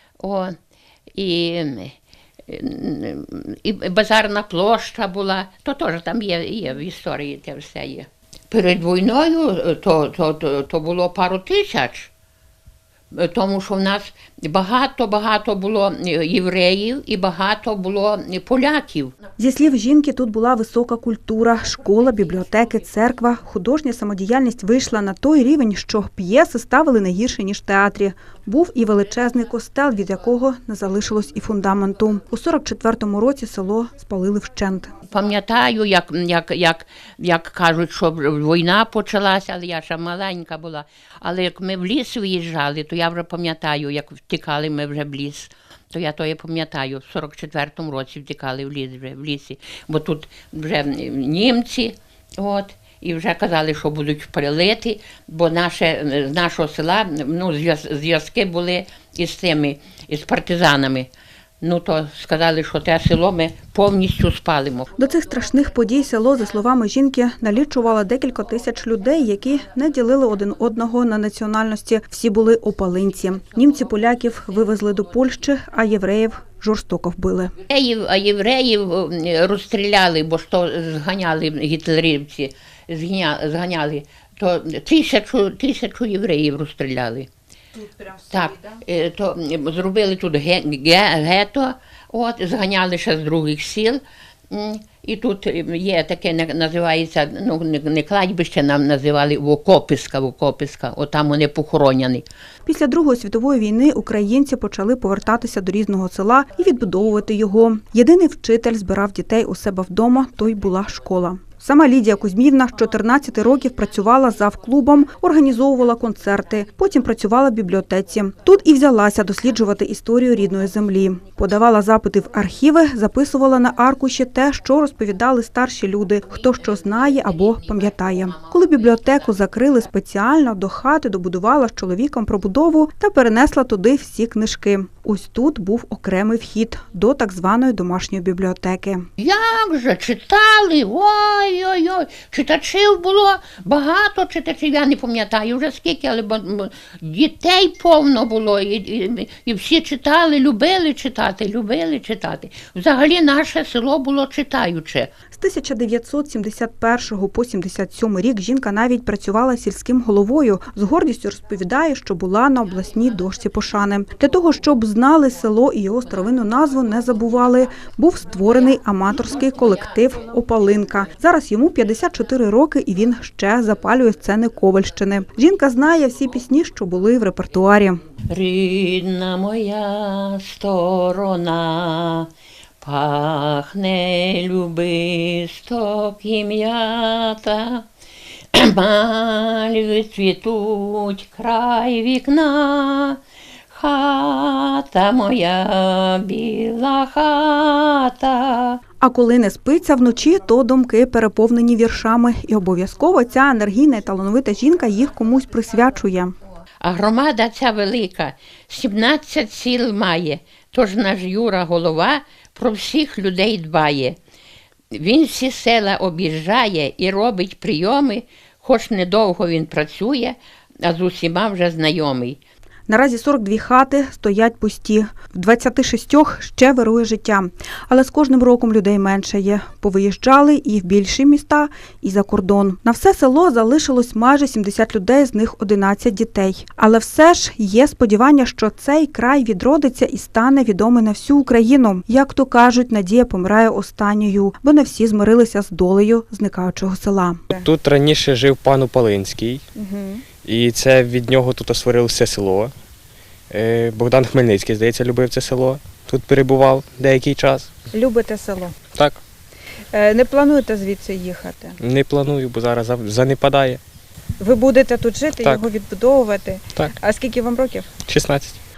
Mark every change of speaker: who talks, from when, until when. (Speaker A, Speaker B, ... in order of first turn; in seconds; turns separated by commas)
Speaker A: 0.2-0.6, Speaker A: 1.1-1.9, Speaker A: 2.5-12.1, Speaker A: 13.1-19.1, Speaker B: 19.4-34.9, Speaker A: 35.1-61.1, Speaker A: 61.6-64.9, Speaker B: 65.0-77.5, Speaker A: 77.7-87.3, Speaker A: 88.0-102.2, Speaker B: 102.7-139.1, Speaker A: 126.9-129.6, Speaker A: 139.2-155.1, Speaker B: 155.3-178.0, Speaker A: 169.1-169.6, Speaker A: 178.3-182.3, Speaker A: 182.8-187.9, Speaker A: 188.5-193.2, Speaker A: 193.7-198.8, Speaker B: 199.0-206.3, Speaker A: 206.8-214.2, Speaker A: 214.9-222.4, Speaker B: 222.9-247.7, Speaker C: 247.5-249.6, Speaker B: 249.8-250.2, Speaker C: 250.4-252.7, Speaker C: 253.5-257.7, Speaker B: 257.9-258.8, Speaker C: 258.9-259.2, Speaker B: 259.9-261.8, Speaker C: 261.8-263.8, Speaker B: 264.4-267.9, Speaker C: 268.1-268.6